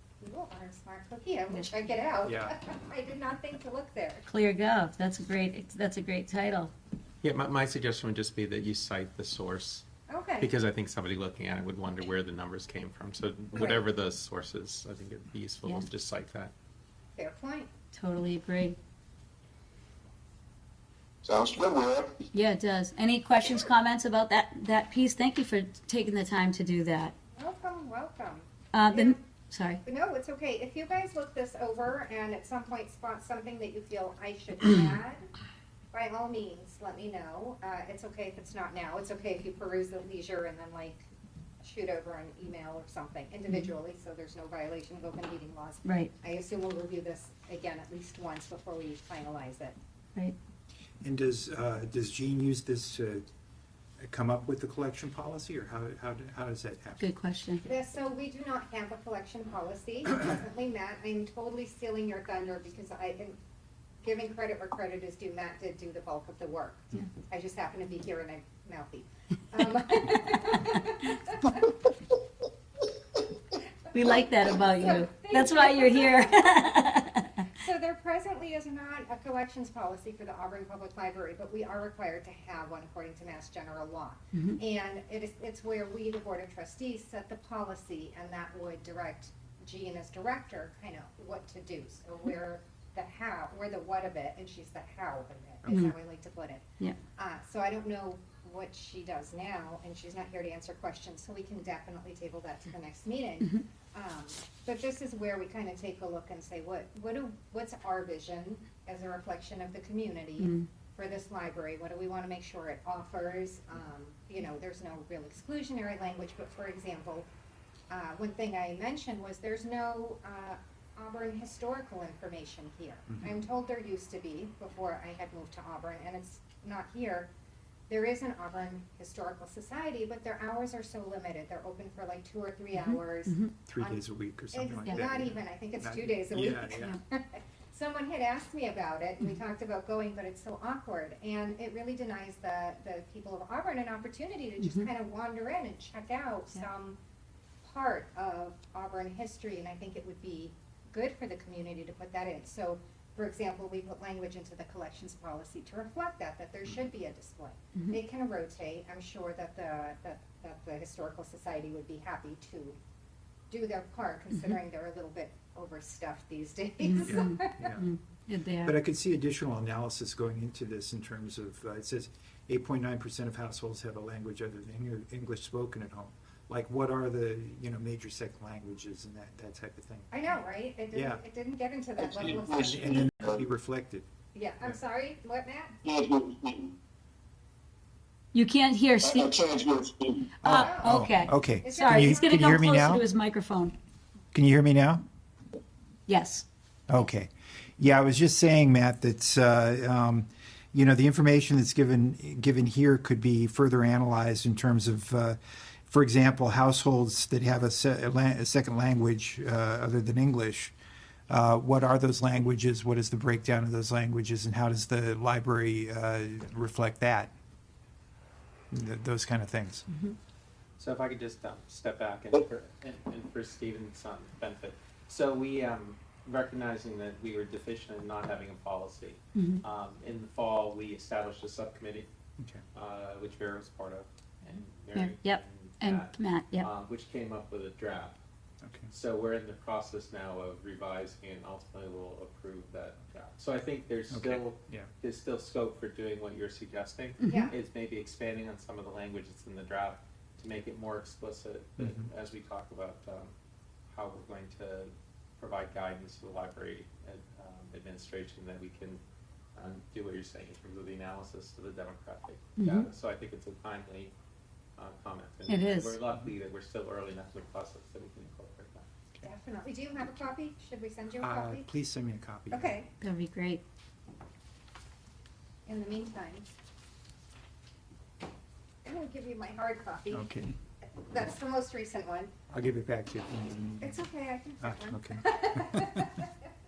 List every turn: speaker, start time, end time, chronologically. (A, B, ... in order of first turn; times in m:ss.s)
0:00.2-0:04.3 A
0:02.2-0:02.5 B
0:04.3-0:06.7 C
0:07.2-0:09.9 D
0:10.1-0:10.5 A
0:10.4-0:16.5 D
0:13.5-0:13.9 A
0:17.2-0:17.7 A
0:17.9-0:18.8 C
0:21.2-0:22.2 E
0:22.3-0:27.1 C
0:27.4-0:29.2 A
0:28.7-0:29.8 C
0:29.8-0:35.3 A
0:35.9-0:41.1 A
0:41.6-0:49.8 A
0:45.8-0:46.1 C
0:51.0-0:53.2 B
0:54.0-0:57.0 B
0:57.0-0:57.6 C
0:57.6-1:03.4 A
1:04.0-1:11.8 A
1:13.9-1:17.5 C
1:14.7-1:16.7 A
1:17.5-1:57.3 A
1:35.6-1:35.9 C
1:50.4-1:50.7 C
1:57.9-2:07.3 A
2:03.1-2:03.4 B
2:07.9-2:14.0 A
2:12.8-2:13.5 C
2:13.7-2:17.0 B
2:14.5-2:27.0 A
2:24.6-2:24.9 C
2:27.6-2:42.8 A
2:43.5-2:47.7 A
2:46.8-2:48.7 C
2:47.0-2:47.8 B
2:48.6-3:00.1 B
3:00.1-3:02.9 A
3:00.9-3:01.2 B
3:02.0-3:03.3 E
3:02.5-3:04.0 B
3:04.3-3:05.8 A
3:05.9-3:06.7 E
3:08.3-3:09.4 C
3:09.0-3:10.3 E
3:10.4-3:13.0 B
3:10.4-3:13.8 C
3:10.5-3:11.1 A
3:11.6-3:12.6 A
3:14.3-3:15.0 B
3:16.1-3:16.4 C
3:16.9-3:30.8 B
3:31.3-3:37.3 B
3:38.7-3:39.9 B
3:39.9-3:40.2 C
3:40.8-3:52.1 D
3:49.4-3:49.6 C
3:52.4-3:52.6 B
3:52.7-3:58.2 D
3:54.9-3:56.7 C
3:58.6-3:58.9 B
3:58.9-4:13.3 D
4:04.1-4:04.9 B
4:07.2-4:07.6 A
4:11.8-4:12.1 B
4:13.9-4:19.0 D
4:19.6-4:24.1 D
4:22.6-4:22.9 C
4:24.8-4:28.9 D
4:25.5-4:26.0 C
4:29.2-4:31.7 A
4:31.2-4:32.8 B
4:32.5-4:32.9 A
4:33.0-4:33.6 C
4:35.7-4:36.5 A
4:38.8-4:40.3 A
4:40.1-4:40.6 B
4:40.8-4:42.3 A
4:42.5-4:44.1 B
4:43.8-4:46.2 A
4:44.6-4:46.2 B